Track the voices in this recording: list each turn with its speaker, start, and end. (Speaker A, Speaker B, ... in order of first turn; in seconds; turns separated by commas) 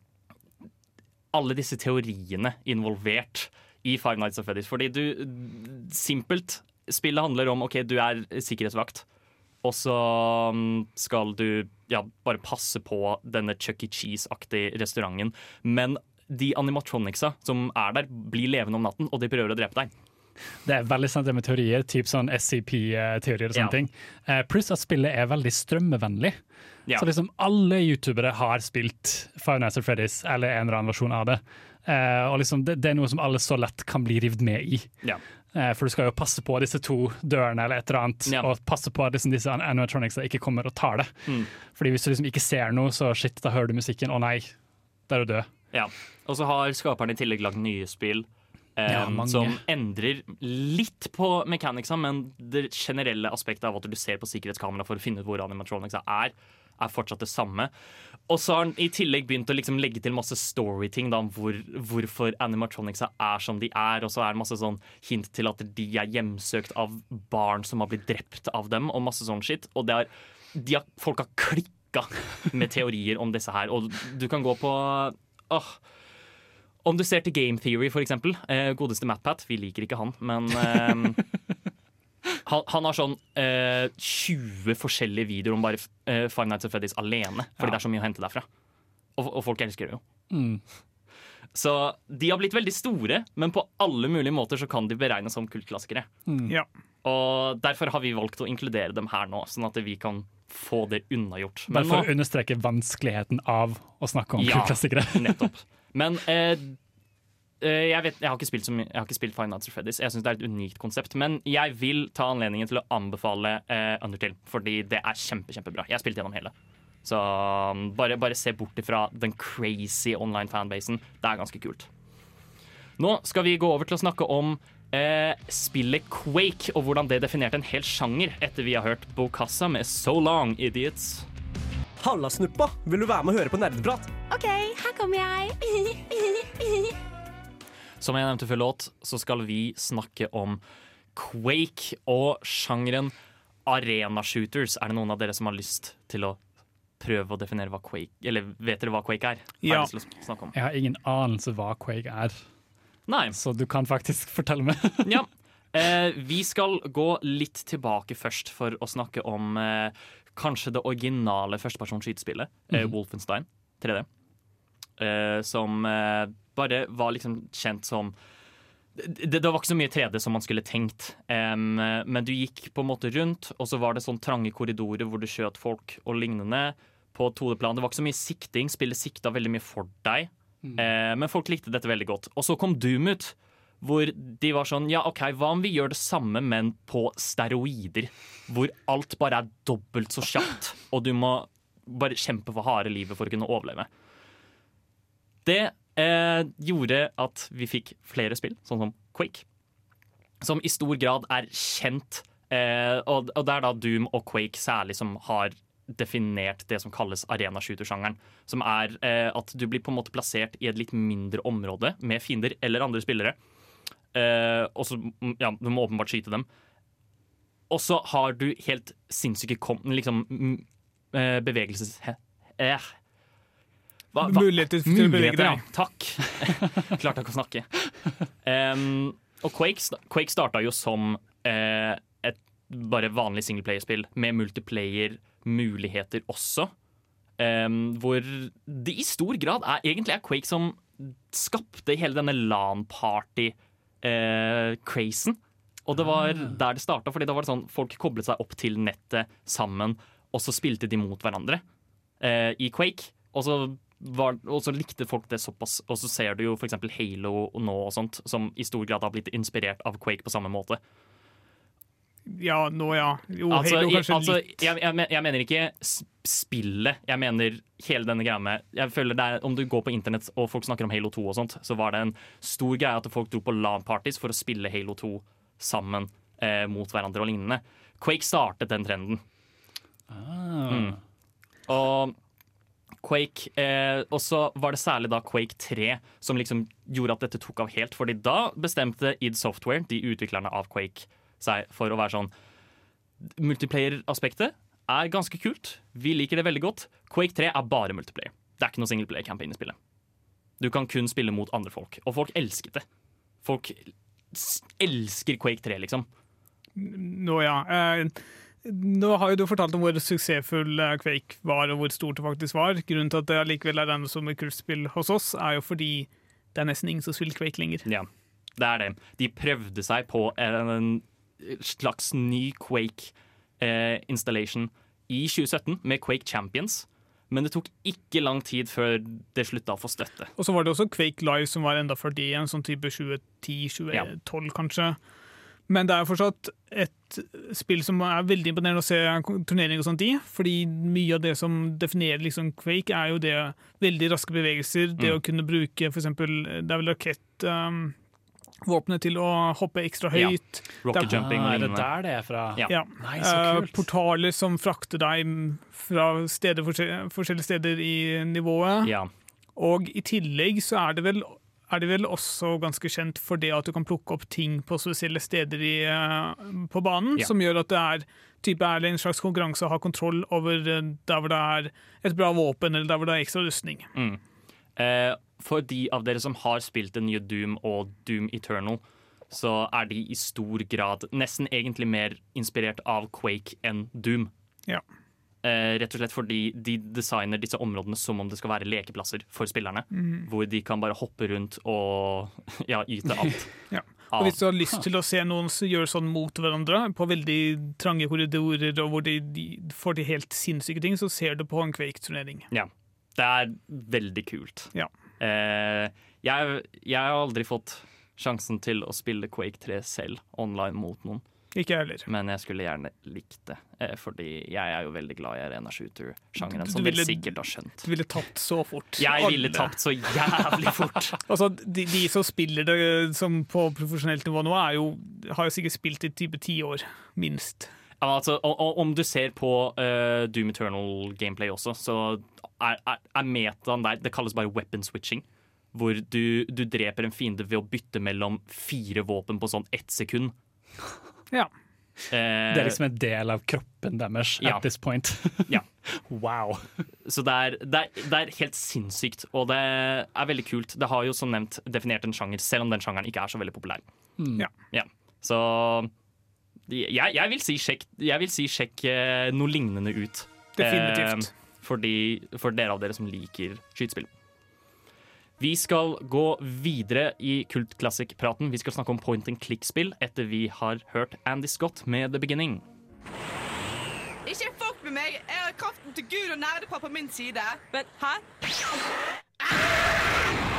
Speaker A: 1.3-9.1, Speaker A: 9.6-19.9, Speaker B: 20.6-26.4, Speaker B: 26.9-34.9, Speaker B: 35.5-41.1, Speaker B: 41.7-44.5, Speaker B: 45.1-45.5, Speaker A: 45.7-57.7, Speaker B: 48.9-49.6, Speaker A: 58.3-75.8, Speaker A: 76.8-81.2, Speaker A: 82.5-88.5, Speaker A: 89.2-90.0, Speaker B: 90.3-90.6, Speaker A: 91.5-96.1, Speaker B: 96.3-96.5, Speaker A: 97.0-102.1, Speaker B: 101.7-105.5, Speaker A: 104.4-106.8, Speaker A: 107.6-116.5, Speaker A: 117.0-121.9, Speaker A: 123.0-131.3, Speaker C: 132.0-134.1, Speaker D: 134.3-136.9, Speaker A: 138.0-140.6, Speaker A: 141.2-143.1, Speaker A: 143.7-146.4, Speaker A: 147.0-150.5, Speaker E: 149.6-149.9, Speaker B: 150.5-152.4, Speaker A: 153.1-153.4, Speaker B: 153.3-155.2, Speaker A: 155.0-164.1, Speaker A: 165.0-168.2, Speaker A: 169.0-193.9, Speaker A: 195.4-199.4, Speaker A: 200.4-213.4, Speaker A: 214.1-216.5, Speaker A: 217.7-222.9, Speaker A: 224.1-227.7, Speaker E: 224.2-225.6, Speaker A: 228.4-236.7, Speaker A: 237.4-251.6, Speaker A: 252.2-260.8, Speaker E: 262.3-264.6, Speaker A: 263.5-279.2, Speaker B: 280.1-281.0, Speaker A: 280.7-281.0, Speaker A: 281.7-282.2, Speaker A: 283.0-292.3, Speaker A: 293.2-299.8, Speaker A: 300.6-302.9, Speaker A: 303.4-306.1, Speaker E: 306.8-317.8, Speaker A: 317.9-330.3, Speaker E: 330.4-335.0, Speaker E: 335.7-347.9, Speaker E: 348.6-351.2, Speaker A: 350.1-351.9, Speaker B: 351.0-353.9, Speaker E: 352.7-358.9, Speaker A: 358.8-359.1, Speaker E: 359.6-373.9, Speaker A: 373.9-374.2, Speaker A: 374.8-384.3, Speaker A: 385.4-393.6, Speaker E: 389.9-390.3, Speaker E: 393.7-402.5, Speaker A: 394.1-394.4, Speaker A: 402.5-411.2, Speaker E: 411.6-412.1, Speaker A: 412.1-417.9, Speaker E: 416.4-419.7, Speaker A: 419.0-421.2, Speaker E: 421.3-427.7, Speaker A: 428.0-440.4, Speaker A: 442.1-442.8, Speaker B: 442.5-446.7, Speaker A: 444.4-444.6, Speaker A: 447.0-453.8, Speaker B: 454.2-454.5, Speaker A: 454.7-455.9, Speaker A: 456.7-464.1, Speaker E: 460.6-461.3, Speaker A: 465.4-472.6, Speaker F: 474.3-478.2